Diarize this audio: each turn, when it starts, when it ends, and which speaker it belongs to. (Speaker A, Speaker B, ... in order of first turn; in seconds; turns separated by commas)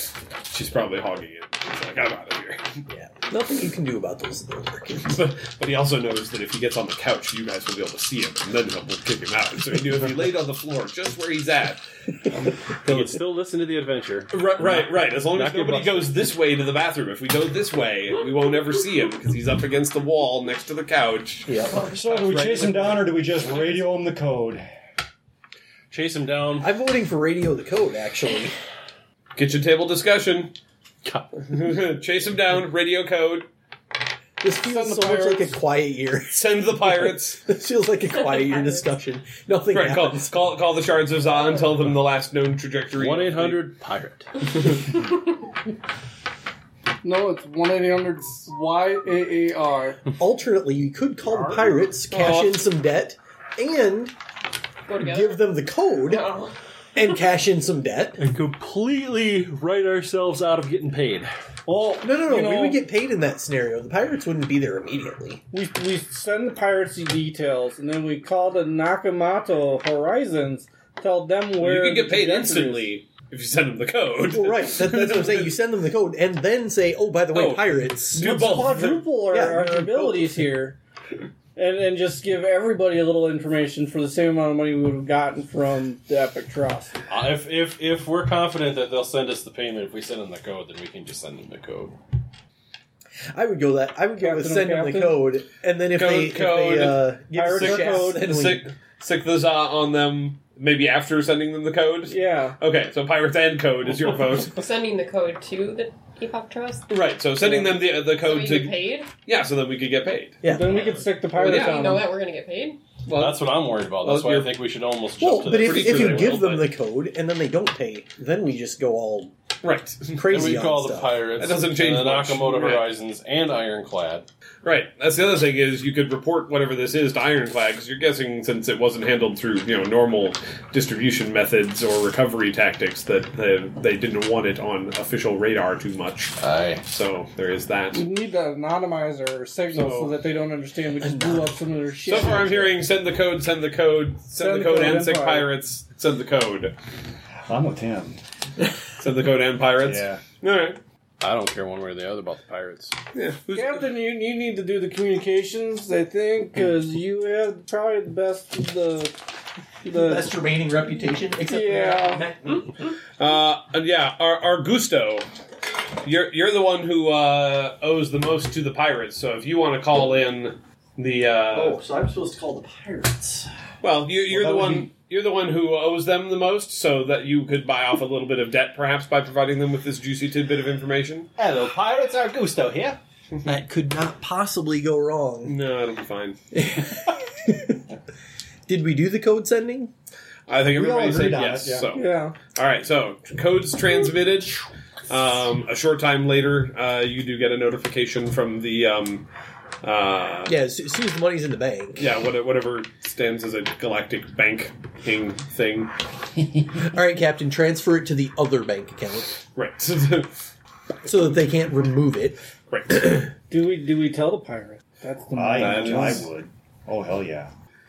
Speaker A: 0.5-2.8, Speaker B: 2.9-5.2, Speaker A: 5.0-11.8, Speaker C: 12.8-16.1, Speaker A: 14.3-21.6, Speaker B: 21.4-21.9, Speaker D: 21.9-24.7, Speaker C: 22.1-22.9, Speaker C: 25.9-26.7, Speaker B: 26.6-28.6, Speaker A: 29.4-30.6, Speaker A: 31.5-33.5, Speaker B: 34.4-40.4, Speaker E: 34.6-35.5, Speaker A: 36.3-37.5, Speaker F: 38.2-38.9, Speaker A: 39.7-43.6, Speaker C: 42.9-44.3, Speaker E: 47.0-50.0, Speaker B: 50.2-54.1, Speaker A: 52.1-52.6, Speaker F: 54.9-55.5, Speaker B: 55.0-56.3, Speaker F: 56.1-56.5, Speaker B: 57.0-58.2, Speaker C: 58.2-61.3, Speaker E: 61.7-62.8, Speaker B: 62.0-65.4, Speaker E: 65.5-72.9, Speaker A: 71.6-75.5, Speaker B: 74.3-80.4, Speaker A: 77.3-79.1, Speaker E: 78.2-80.8, Speaker E: 81.6-86.9, Speaker C: 87.1-92.0, Speaker B: 93.3-98.7, Speaker E: 94.2-95.2, Speaker A: 95.9-104.6, Speaker E: 97.3-98.2, Speaker E: 102.1-102.6, Speaker F: 104.4-106.9, Speaker A: 106.9-110.4, Speaker F: 107.6-109.1, Speaker B: 110.4-110.8, Speaker E: 110.5-112.1, Speaker F: 111.3-112.8, Speaker A: 111.4-112.0, Speaker A: 113.1-114.5, Speaker C: 113.1-116.4, Speaker B: 115.2-119.3, Speaker A: 115.5-116.7, Speaker A: 119.6-120.5, Speaker B: 120.1-121.3, Speaker C: 120.3-124.3, Speaker A: 121.4-122.9, Speaker A: 124.6-136.4, Speaker C: 136.4-136.8, Speaker A: 136.9-138.0, Speaker E: 137.9-142.7, Speaker A: 139.7-140.1, Speaker B: 141.0-142.7, Speaker A: 142.1-146.7, Speaker E: 144.4-145.5, Speaker D: 147.5-148.2, Speaker A: 149.0-150.8, Speaker D: 149.8-150.2, Speaker C: 151.2-152.9, Speaker A: 153.1-153.9, Speaker E: 153.5-159.2, Speaker E: 159.8-160.3, Speaker B: 159.8-162.7, Speaker E: 161.4-162.3, Speaker A: 163.2-165.2, Speaker A: 166.0-171.8, Speaker B: 171.5-173.5, Speaker A: 173.8-181.3, Speaker D: 174.3-174.9, Speaker C: 181.4-183.0, Speaker B: 183.4-185.6, Speaker A: 185.4-186.4, Speaker B: 186.5-187.8, Speaker B: 188.7-189.9, Speaker A: 190.5-199.3, Speaker D: 190.7-191.9, Speaker E: 191.9-192.4, Speaker A: 199.8-200.6, Speaker B: 200.4-202.1, Speaker A: 202.0-205.9, Speaker B: 206.8-209.4, Speaker A: 209.6-210.3, Speaker B: 211.0-212.4, Speaker A: 212.7-213.3, Speaker E: 213.5-216.3, Speaker D: 215.3-217.5, Speaker A: 215.6-216.2